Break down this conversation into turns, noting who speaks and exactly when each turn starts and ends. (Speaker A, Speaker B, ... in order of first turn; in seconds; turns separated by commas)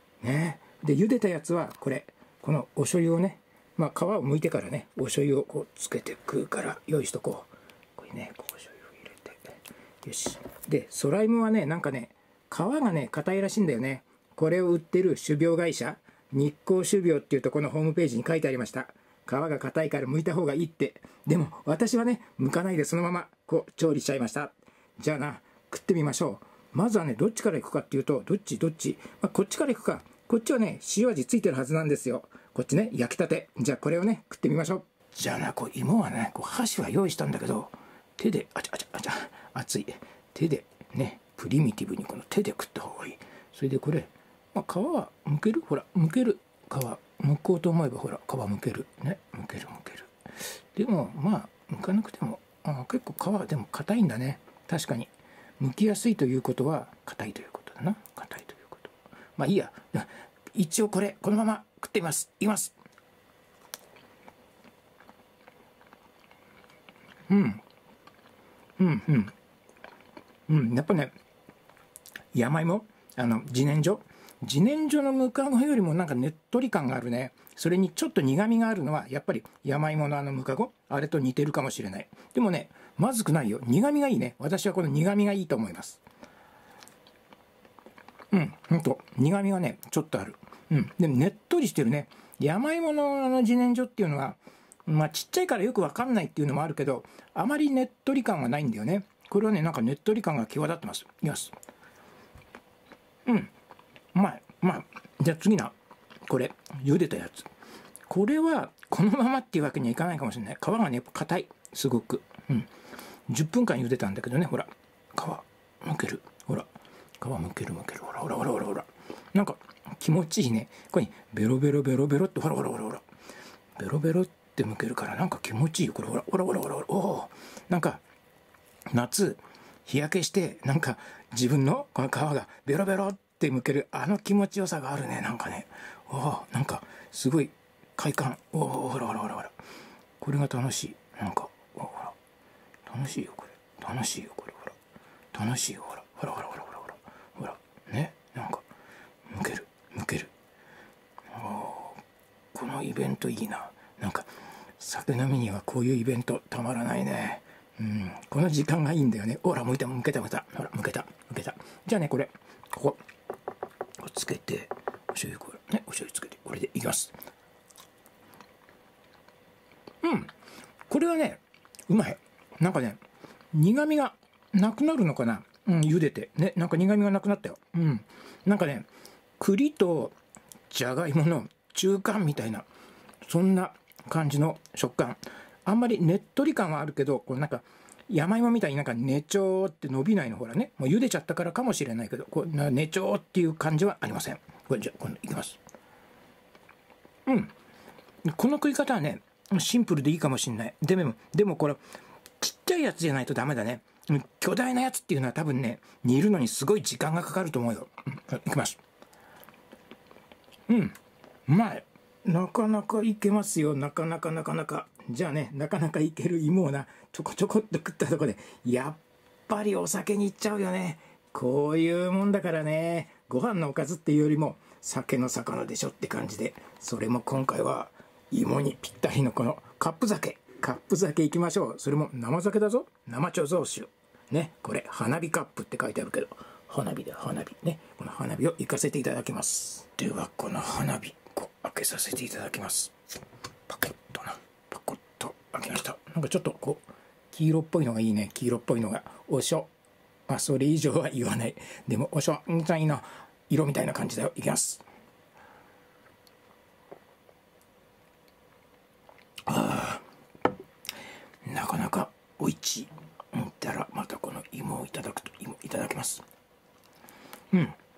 Speaker A: 0.2-50.1, Speaker A: 50.7-62.8, Speaker A: 67.3-67.6, Speaker A: 68.8-69.3, Speaker A: 70.5-71.1, Speaker A: 72.3-86.0, Speaker A: 88.3-101.5, Speaker A: 103.2-103.5, Speaker A: 104.1-105.7, Speaker A: 106.3-107.5, Speaker A: 108.1-112.7, Speaker A: 113.3-123.0, Speaker A: 123.8-128.0, Speaker A: 128.9-139.5, Speaker A: 140.2-142.2, Speaker A: 142.8-144.8, Speaker A: 145.3-148.7, Speaker A: 149.3-150.3, Speaker A: 151.3-152.0, Speaker A: 152.5-163.0, Speaker A: 164.0-167.1, Speaker A: 170.0-170.3, Speaker A: 170.9-173.0, Speaker A: 173.5-178.9, Speaker A: 179.4-180.1, Speaker A: 180.7-182.7, Speaker A: 183.2-195.6, Speaker A: 197.3-197.5, Speaker A: 198.3-201.8, Speaker A: 202.4-208.8, Speaker A: 210.7-210.9, Speaker A: 211.5-242.9, Speaker A: 243.7-249.7, Speaker A: 250.3-254.8, Speaker A: 259.5-260.0, Speaker A: 261.4-266.2, Speaker A: 267.5-267.8